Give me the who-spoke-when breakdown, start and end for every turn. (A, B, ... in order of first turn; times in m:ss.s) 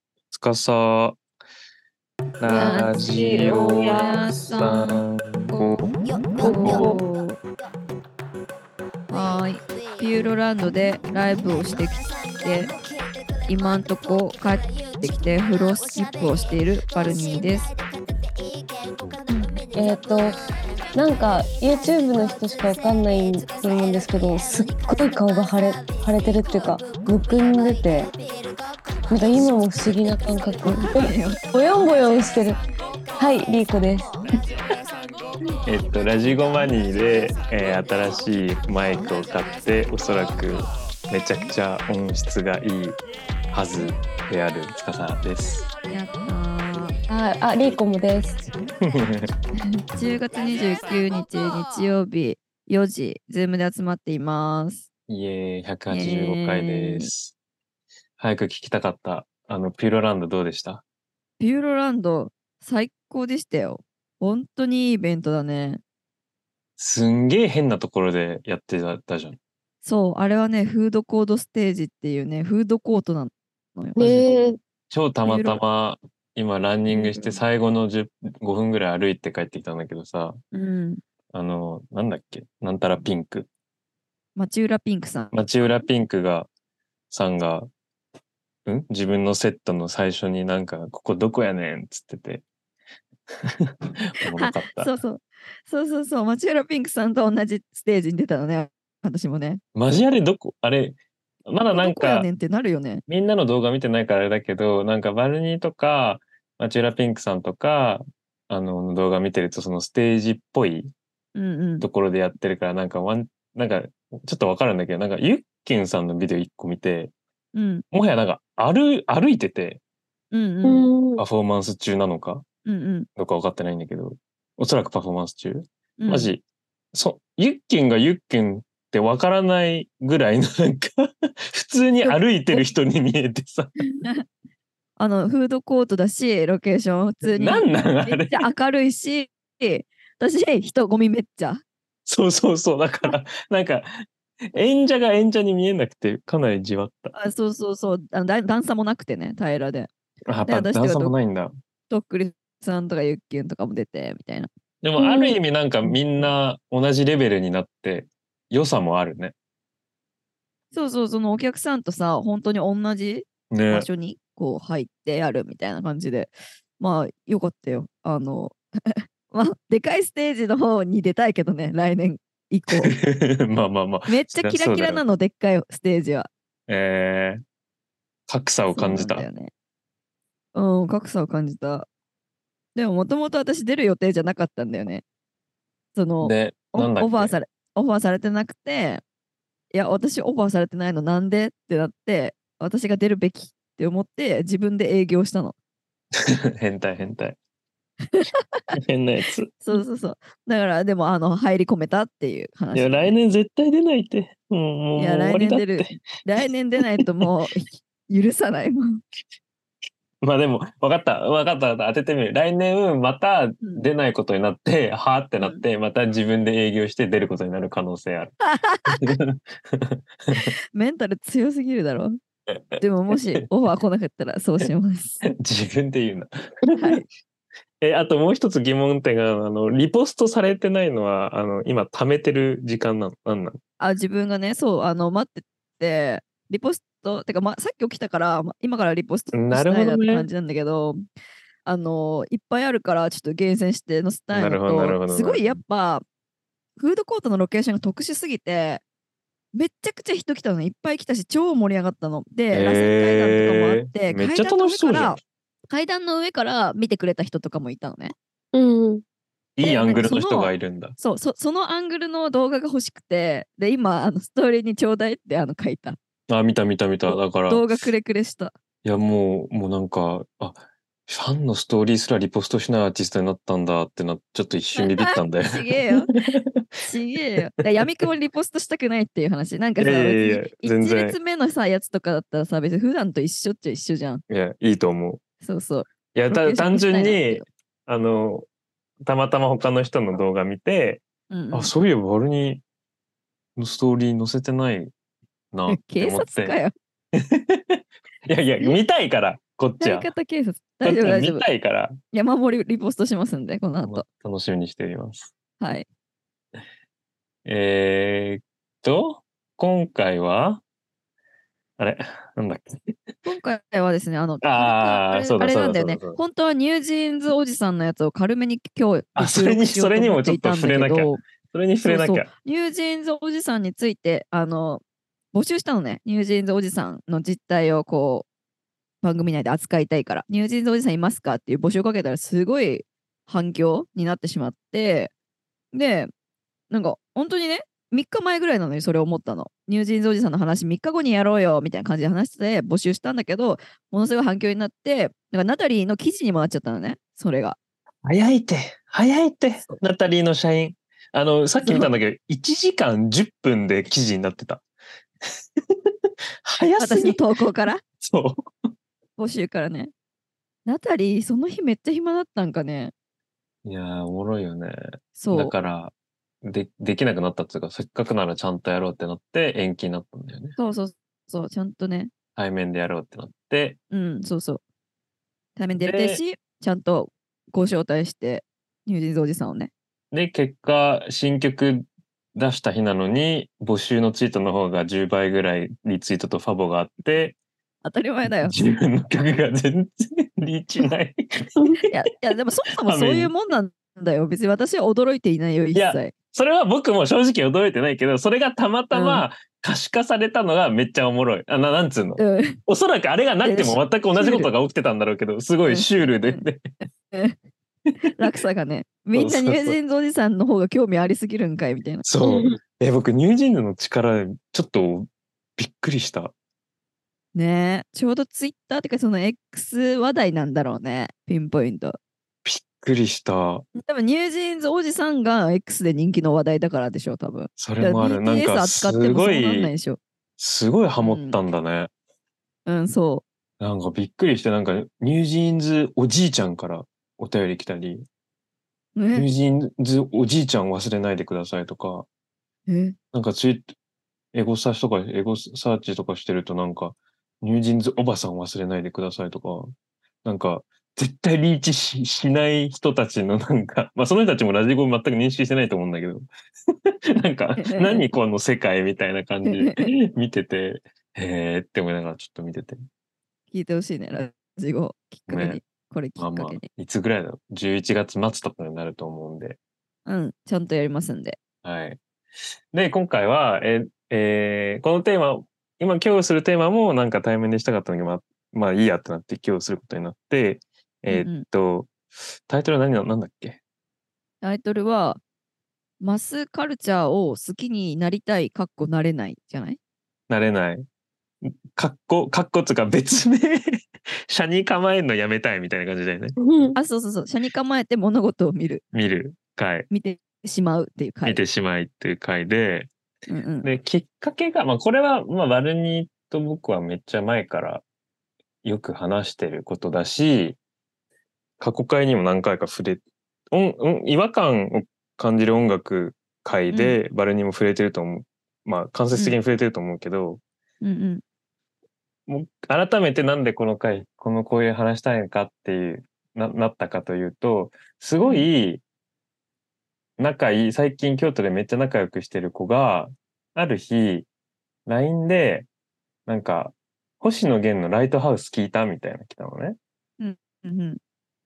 0:00.3-0:01.2 A
0:02.4-0:05.9 A
0:02.5-0:04.2 B
0:02.5-0:05.0 C
0:06.3-0:07.4 C
0:06.4-0:07.2 B
0:06.4-0:06.9 A
0:09.1-0:12.7 C
0:13.5-0:17.7 C
0:19.3-0:19.6 C
0:19.8-0:20.4 B
0:21.0-0:28.1 B
0:29.1-0:32.6 B
0:30.6-0:31.4 C
0:33.2-0:34.1 B
0:35.7-0:43.0 A
0:43.5-0:45.6 A
0:45.9-0:47.0 C
0:47.1-0:48.4 B
0:48.8-0:49.3 A
0:49.9-0:54.8 C
0:55.1-0:57.3 A
0:55.9-0:57.1 C
0:58.2-1:00.8 A
1:01.4-1:05.8 C
1:06.8-1:09.4 A
1:09.8-1:14.3 C
1:14.0-1:14.6 B
1:14.9-1:20.4 A
1:15.2-1:15.6 C
1:16.9-1:17.4 C
1:20.5-1:21.0 C
1:21.3-1:23.5 A
1:24.4-1:25.8 C
1:25.3-1:26.5 A
1:27.1-1:27.7 A
1:28.7-1:32.4 A
1:33.4-1:34.9 A
1:34.3-1:39.6 C
1:39.8-1:42.3 A
1:41.7-1:43.0 C
1:43.1-1:50.9 A
1:51.4-1:51.9 C
1:51.8-1:57.1 A
1:57.5-1:57.8 C
1:57.9-1:59.8 A
2:00.3-2:00.9 C
2:00.6-2:01.2 B
2:01.2-2:02.4 A
2:02.7-2:03.1 C
2:03.2-2:06.4 A
2:06.0-2:06.3 C
2:06.9-2:13.8 A
2:12.0-2:12.7 C
2:14.0-2:14.2 C
2:15.0-2:21.6 C
2:17.2-2:18.5 A
2:22.1-2:27.1 A
2:27.1-2:29.9 C
2:30.3-2:31.5 A
2:30.5-2:31.2 C
2:31.9-2:34.5 C
2:34.8-2:39.3 A
2:40.7-2:53.0 C
2:43.5-2:43.9 A
2:52.7-2:55.0 A
2:54.1-2:56.3 C
2:56.7-2:57.4 A
2:58.3-2:59.3 A
2:58.7-2:59.5 C
3:00.6-3:01.9 C
3:02.8-3:05.0 C
3:06.0-3:09.0 C
3:06.2-3:07.3 A
3:09.7-3:15.6 C
3:16.5-3:17.4 A
3:18.1-3:18.8 C
3:18.8-3:19.8 A
3:19.6-3:23.2 C
3:22.7-3:26.0 A
3:25.0-3:29.0 C
3:30.2-3:38.3 A
3:33.6-3:33.9 C
3:38.4-3:39.2 C
3:38.9-3:40.5 A
3:40.3-3:42.2 C
3:42.7-3:43.2 A
3:42.8-3:45.2 C
3:45.2-3:47.0 A
3:46.8-3:47.1 C
3:47.8-3:53.6 A
3:53.8-4:01.0 C
3:59.3-4:00.3 A
4:01.6-4:06.0 C
4:04.3-4:05.6 A
4:06.8-4:08.8 C
4:09.5-4:18.1 C
4:12.5-4:15.2 A
4:18.5-4:19.0 B
4:19.6-4:21.0 A
4:19.6-4:26.0 C
4:26.3-4:27.8 A
4:27.1-4:28.5 C
4:28.8-4:36.6 A
4:34.8-4:36.1 C
4:36.8-4:44.2 C
4:39.8-4:41.2 A
4:44.3-4:45.2 A
4:45.4-4:47.5 C
4:46.1-4:48.5 A
4:49.0-4:52.6 A
4:51.3-4:51.7 C
4:53.6-4:54.9 A
4:55.5-4:56.6 A
4:55.7-4:56.7 C
4:57.1-5:00.1 A
4:59.8-5:01.5 C
5:00.8-5:02.0 A
5:02.1-5:04.0 C
5:03.8-5:05.3 A
5:05.6-5:05.9 C
5:07.4-5:10.6 A
5:11.8-5:12.9 A
5:13.2-5:21.2 C
5:14.4-5:16.2 A
5:19.2-5:22.3 A
5:21.8-5:24.8 C
5:25.3-5:28.3 C
5:29.0-5:35.1 C
5:35.7-5:36.1 C
5:36.7-5:47.6 C
5:48.0-5:54.6 A
5:51.6-5:51.9 C
5:55.6-5:55.9 A
5:56.4-5:57.2 A
5:56.8-5:57.8 C
5:58.0-5:58.5 A
5:59.2-5:59.9 C
6:00.7-6:02.9 C
6:03.6-6:04.8 A
6:05.2-6:05.5 C
6:05.3-6:05.9 A
6:06.4-6:10.6 A
6:10.6-6:12.1 C
6:12.4-6:13.8 A
6:13.9-6:14.6 C
6:15.6-6:19.7 C
6:15.8-6:16.2 A
6:20.1-6:27.4 A
6:27.8-6:28.6 C
6:28.4-6:31.9 A
6:31.9-6:36.1 C
6:32.8-6:33.3 A
6:35.7-6:46.6 A
6:38.9-6:39.2 C
6:42.2-6:42.6 C
6:43.4-6:44.5 C
6:45.7-6:46.4 C
6:47.1-6:47.4 C
6:48.2-6:52.1 C
6:49.1-6:49.8 A
6:52.1-6:56.3 A
6:52.3-6:52.5 B
6:57.4-7:02.0 C
7:02.4-7:03.6 A
7:03.7-7:10.0 C
7:07.6-7:09.7 A
7:10.4-7:11.9 A
7:11.0-7:11.4 C
7:12.7-7:13.2 C
7:13.6-7:18.0 A
7:19.0-7:19.3 C
7:19.2-7:22.1 A
7:22.7-7:23.0 C
7:23.1-7:23.7 A
7:24.3-7:29.7 A
7:30.2-7:36.3 A
7:36.9-7:42.8 A
7:37.6-7:38.1 C
7:39.4-7:39.9 C
7:43.5-7:46.7 C
7:45.3-7:45.6 A
7:46.2-7:49.6 A
7:50.1-7:51.4 C
7:51.6-7:52.0 A
7:52.7-8:02.0 A
8:01.1-8:01.4 C
8:02.5-8:03.6 A
8:04.4-8:05.2 C
8:06.0-8:09.8 C
8:10.3-8:10.8 A
8:11.4-8:16.4 A
8:16.4-8:16.8 B
8:16.8-8:18.8 C
8:18.9-8:19.9 A
8:19.9-8:21.4 C
8:21.2-8:22.9 A
8:23.3-8:23.7 C
8:23.6-8:27.8 A
8:28.6-8:30.6 A
8:31.6-8:40.4 A
8:36.7-8:37.0 C
8:40.8-8:41.2 C
8:42.3-8:48.8 A
8:48.2-8:48.5 C
8:50.2-8:54.3 A
8:54.9-8:55.7 A
8:56.3-8:59.8 A
9:00.2-9:01.0 C